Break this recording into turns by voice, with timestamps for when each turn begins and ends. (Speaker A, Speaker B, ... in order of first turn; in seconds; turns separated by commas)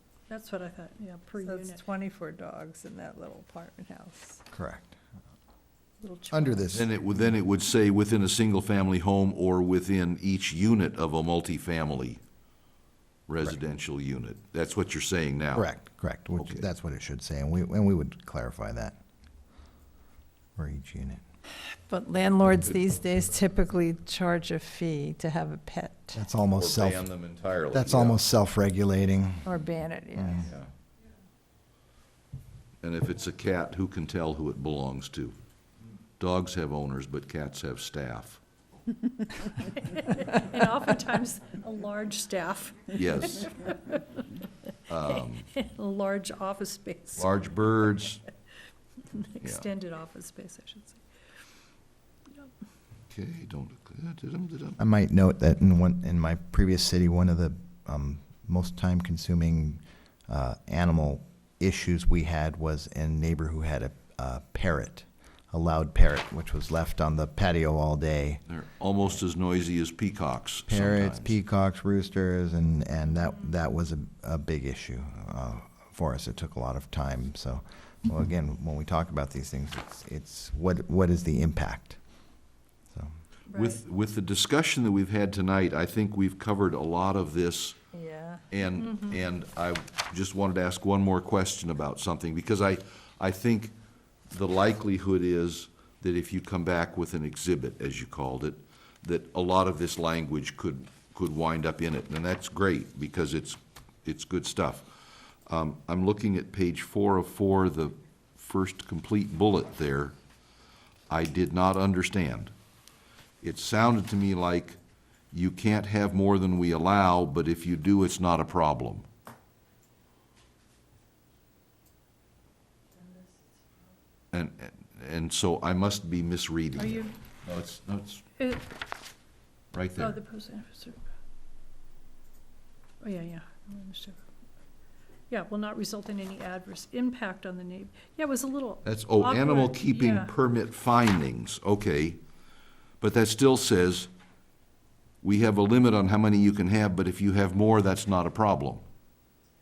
Speaker A: 0.3-1.8, Speaker B: 1.4-4.4, Speaker C: 4.5-5.0, Speaker B: 6.0-6.6, Speaker C: 6.3-6.9, Speaker D: 6.7-12.2, Speaker D: 13.3-15.7, Speaker C: 15.5-19.0, Speaker D: 16.4-16.7, Speaker C: 20.6-21.2, Speaker B: 21.5-26.2, Speaker C: 26.1-27.1, Speaker D: 26.5-28.2, Speaker C: 27.7-29.5, Speaker B: 29.4-30.5, Speaker C: 30.1-30.4, Speaker D: 30.4-30.7, Speaker D: 32.8-35.3, Speaker D: 36.2-38.4, Speaker A: 39.4-44.2, Speaker D: 42.9-43.5, Speaker D: 44.9-45.5, Speaker A: 45.5-47.3, Speaker D: 47.2-48.2, Speaker A: 49.1-51.0, Speaker D: 49.4-49.7, Speaker D: 53.1-54.8, Speaker C: 54.8-68.4, Speaker D: 68.5-71.3, Speaker C: 70.7-82.0, Speaker A: 83.5-83.8, Speaker D: 83.5-87.8, Speaker B: 87.9-88.4, Speaker D: 88.5-93.7, Speaker A: 88.8-89.2, Speaker D: 94.3-104.9, Speaker D: 105.5-110.1, Speaker D: 111.1-112.5, Speaker D: 113.4-114.8, Speaker D: 115.3-119.0, Speaker D: 124.3-128.2, Speaker A: 126.8-127.1, Speaker A: 128.4-128.7, Speaker D: 129.7-130.2, Speaker A: 129.9-131.1, Speaker A: 133.0-134.2, Speaker A: 135.3-140.3, Speaker D: 138.8-142.2, Speaker D: 143.0-144.1, Speaker D: 145.2-148.8